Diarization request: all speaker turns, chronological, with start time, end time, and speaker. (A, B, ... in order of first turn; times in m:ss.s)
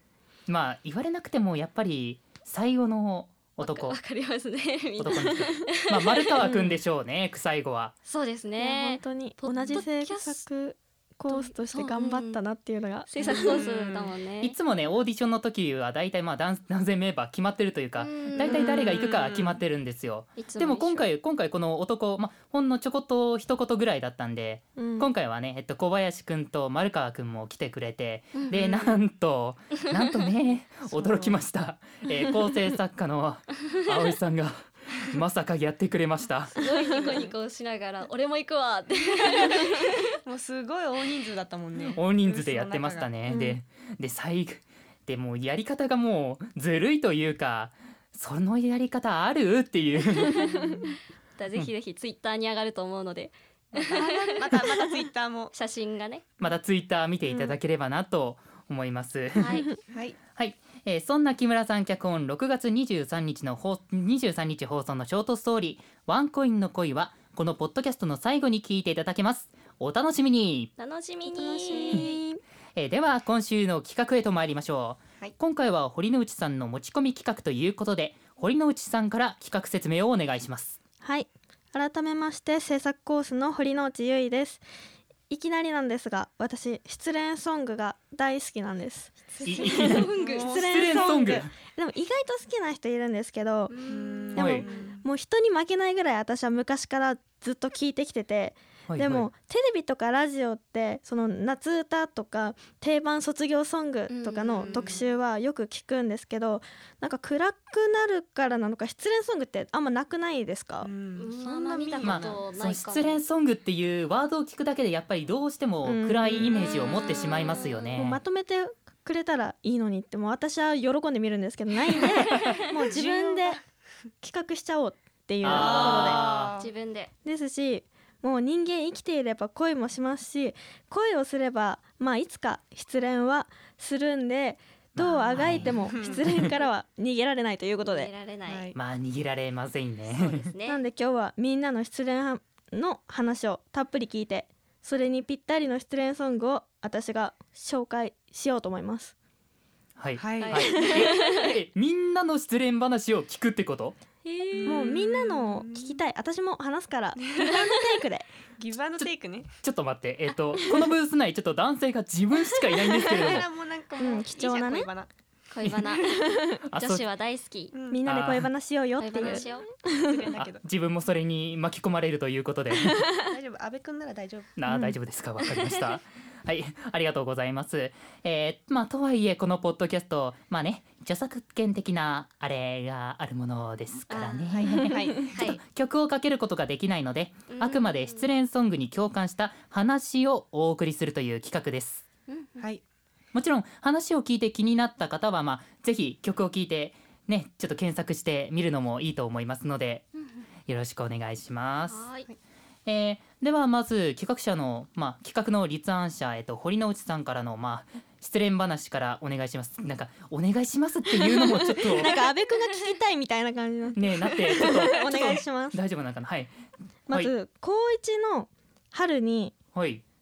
0:00.5-0:04.0 A
0:03.6-0:06.4 B
0:05.0-0:08.0 A
0:06.4-0:06.8 C
0:08.1-0:10.4 B
0:08.6-0:13.6 C
0:11.3-0:12.4 B
0:13.1-0:14.6 B
0:13.3-0:14.1 D
0:14.4-0:36.6 A
0:18.0-0:18.9 B
0:18.4-0:19.6 D
0:20.4-0:21.1 B
0:24.8-0:25.1 C
0:28.3-0:28.8 B
0:30.9-0:31.4 D
0:36.6-0:40.0 B
0:40.2-0:43.1 D
0:42.0-0:50.6 A
0:51.4-0:54.6 B
0:53.8-0:55.5 D
0:55.5-0:56.2 B
0:56.4-0:59.7 A
0:59.4-0:59.7 B
0:59.9-1:00.2 D
1:00.4-1:10.7 A
1:10.8-1:12.2 B
1:11.2-1:12.4 C
1:12.8-1:20.8 A
1:21.0-1:24.6 C
1:25.3-1:33.8 C
1:29.4-1:30.5 B
1:29.4-1:31.5 A
1:29.5-1:31.5 D
1:33.7-1:34.9 B
1:33.9-1:35.0 D
1:34.4-1:50.9 C
1:34.4-1:34.6 A
1:38.9-1:39.3 A
1:44.1-1:45.0 B
1:44.6-1:45.0 D
1:50.8-1:52.4 D
1:51.2-1:53.2 B
1:52.0-1:58.2 A
1:55.8-1:56.5 C
1:56.6-1:58.0 B
1:58.0-2:03.6 C
2:02.8-2:03.6 D
2:04.2-2:06.2 C
2:05.4-2:06.6 A
2:05.4-2:06.7 D
2:06.1-2:07.1 B
2:07.2-2:18.1 C
2:15.0-2:16.5 A
2:15.6-2:16.2 D
2:17.8-2:18.7 B
2:18.5-2:18.8 D
2:18.8-2:20.5 A
2:20.2-2:20.8 B
2:20.7-2:29.1 C
2:30.0-2:34.0 A
2:30.2-2:30.6 D
2:30.4-2:31.5 B
2:34.2-2:35.0 B
2:34.5-2:36.0 D
2:34.7-2:38.3 C
2:37.3-2:37.6 D
2:38.6-2:39.5 D
2:39.6-2:43.5 A
2:43.0-2:45.1 D
2:44.0-2:44.9 C
2:45.5-2:47.7 B
2:46.3-2:46.6 C
2:46.7-2:47.0 A
2:47.7-2:48.0 D
2:47.9-2:50.2 C
2:48.1-2:48.5 A
2:49.0-2:49.7 B
2:50.0-2:50.6 D
2:50.4-2:53.0 A
2:52.8-2:53.1 C
2:53.3-2:54.6 D
2:54.6-3:12.0 A
2:54.7-2:55.0 C
2:55.4-2:56.0 B
3:04.1-3:04.6 B
3:04.5-3:05.4 D
3:05.2-3:05.6 B
3:07.5-3:08.3 B
3:12.3-3:12.6 B
3:13.3-3:20.1 A
3:20.7-3:22.1 A
3:21.9-3:22.3 B
3:22.9-3:32.1 A
3:31.3-3:35.8 C
3:34.0-3:36.5 A
3:34.6-3:35.4 D
3:37.1-3:39.6 C
3:39.7-3:40.0 A